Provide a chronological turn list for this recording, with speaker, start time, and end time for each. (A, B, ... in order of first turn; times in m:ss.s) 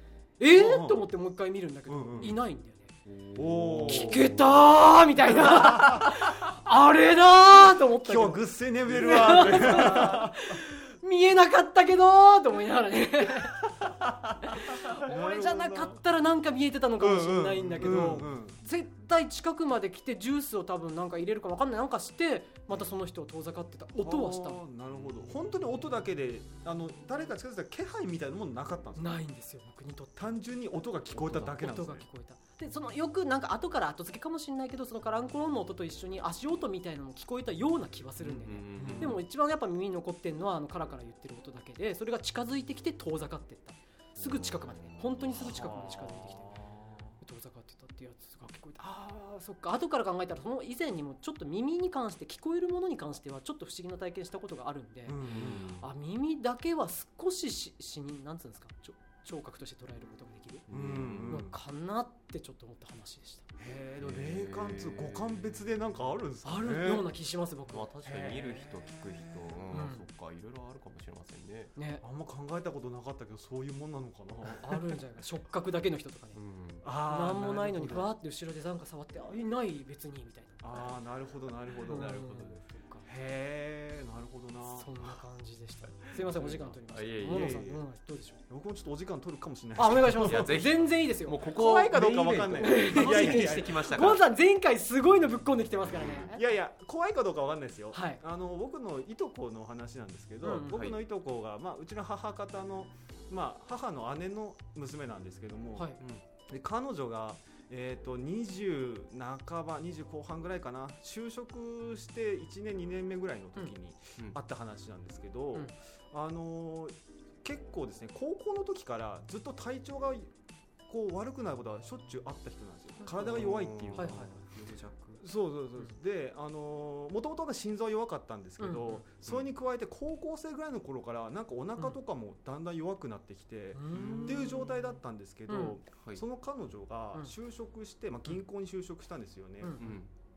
0:00.4-0:02.9 A
0:00.5-0:01.1 B
0:01.9-0:02.4 B
0:03.0-0:04.5 C
0:03.4-0:04.3 B
0:03.9-0:13.7 A
0:05.6-0:06.1 B
0:08.0-0:10.6 B
0:09.1-0:10.2 C
0:14.4-0:24.6 A
0:15.0-0:16.0 B
0:17.0-0:18.6 B
0:17.8-0:18.2 C
0:24.0-0:29.2 B
0:28.9-0:30.3 A
0:30.2-0:32.0 B
0:31.1-0:31.6 C
0:31.4-0:46.6 A
0:38.2-0:39.2 C
0:38.8-0:39.2 B
0:44.2-0:45.3 C
0:45.3-0:47.2 B
0:47.2-1:00.7 A
0:55.1-0:55.8 B
0:55.2-0:55.8 C
1:00.7-1:01.4 C
1:00.7-1:01.6 B
1:01.2-1:03.4 A
1:03.6-1:07.0 B
1:04.0-1:05.7 C
1:06.4-1:07.9 A
1:07.7-1:11.7 C
1:08.0-1:09.5 B
1:09.7-1:10.0 A
1:11.8-1:12.0 A
1:12.0-1:14.8 B
1:14.6-1:16.4 A
1:16.3-1:16.9 C
1:16.8-1:18.1 B
1:17.0-1:21.0 A
1:20.6-1:22.2 B
1:21.8-1:22.6 C
1:21.8-1:23.0 A
1:23.0-1:24.9 B
1:24.7-1:28.4 A
1:26.1-1:27.6 C
1:27.3-1:27.8 B
1:28.5-1:30.6 B
1:29.7-1:31.4 A
1:30.0-1:34.2 C
1:31.5-1:33.8 B
1:32.6-1:36.4 A
1:36.0-1:36.2 C
1:36.1-1:45.9 B
1:37.9-1:38.2 A
1:40.4-1:40.9 A
1:40.7-1:41.0 C
1:46.5-2:00.3 B
2:00.9-2:04.3 B
2:03.1-2:05.2 C
2:03.9-2:04.4 A
2:05.2-2:19.9 B
2:08.6-2:09.0 A
2:13.7-2:15.0 A
2:13.9-2:14.5 C
2:15.5-2:15.8 A
2:19.6-2:20.0 A
2:19.8-2:20.1 C